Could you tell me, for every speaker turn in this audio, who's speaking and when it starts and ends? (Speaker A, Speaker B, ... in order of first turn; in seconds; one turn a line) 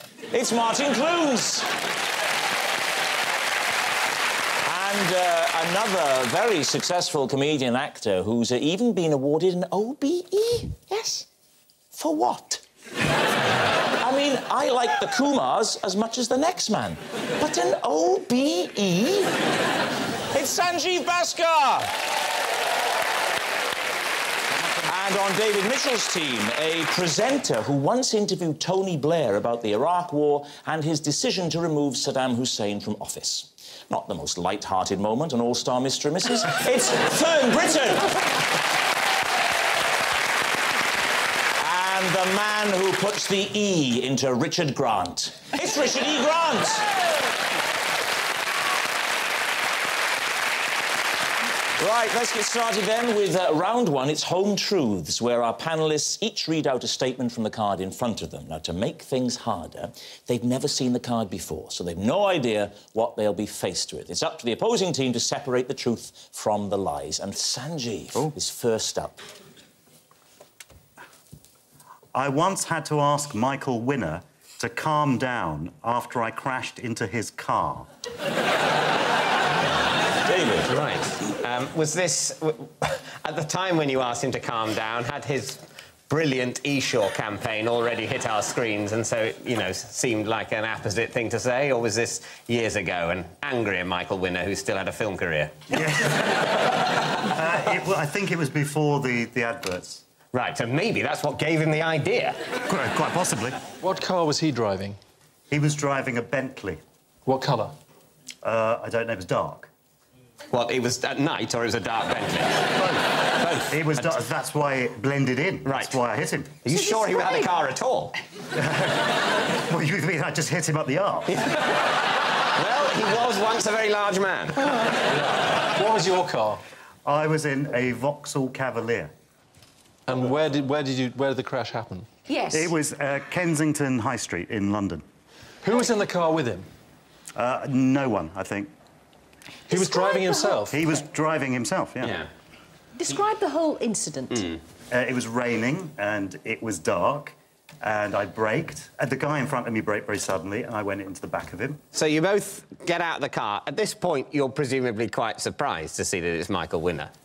Speaker A: 0.3-1.7
Speaker A: 4.6-11.3
Speaker A: 11.9-12.6
Speaker A: 14.0-19.4
Speaker A: 20.3-21.9
Speaker A: 24.8-38.1
Speaker A: 41.6-46.9
Speaker A: 51.8-69.2
Speaker B: 72.1-77.9
Speaker A: 80.2-80.7
Speaker C: 80.7-95.7
Speaker B: 95.7-96.6
Speaker B: 97.2-100.0
Speaker C: 100.3-102.4
Speaker B: 102.6-103.6
Speaker D: 103.8-105.0
Speaker B: 105.5-106.8
Speaker D: 107.2-107.8
Speaker B: 108.4-109.7
Speaker C: 110.5-114.1
Speaker B: 113.7-116.6
Speaker C: 115.6-116.0
Speaker C: 116.6-118.2
Speaker E: 116.7-117.5
Speaker B: 118.5-119.1
Speaker B: 119.7-121.3
Speaker C: 121.3-121.7
Speaker C: 122.5-124.6
Speaker D: 125.1-126.6
Speaker B: 127.0-129.1
Speaker D: 130.1-132.1
Speaker E: 132.3-132.7
Speaker B: 132.5-135.0
Speaker D: 135.6-136.7
Speaker B: 137.3-138.7
Speaker D: 139.7-140.8
Speaker E: 139.7-140.7
Speaker B: 140.7-142.2
Speaker C: 142.0-142.3
Speaker E: 142.9-144.5
Speaker C: 144.3-144.6
Speaker B: 144.9-151.8
Speaker C: 151.9-157.1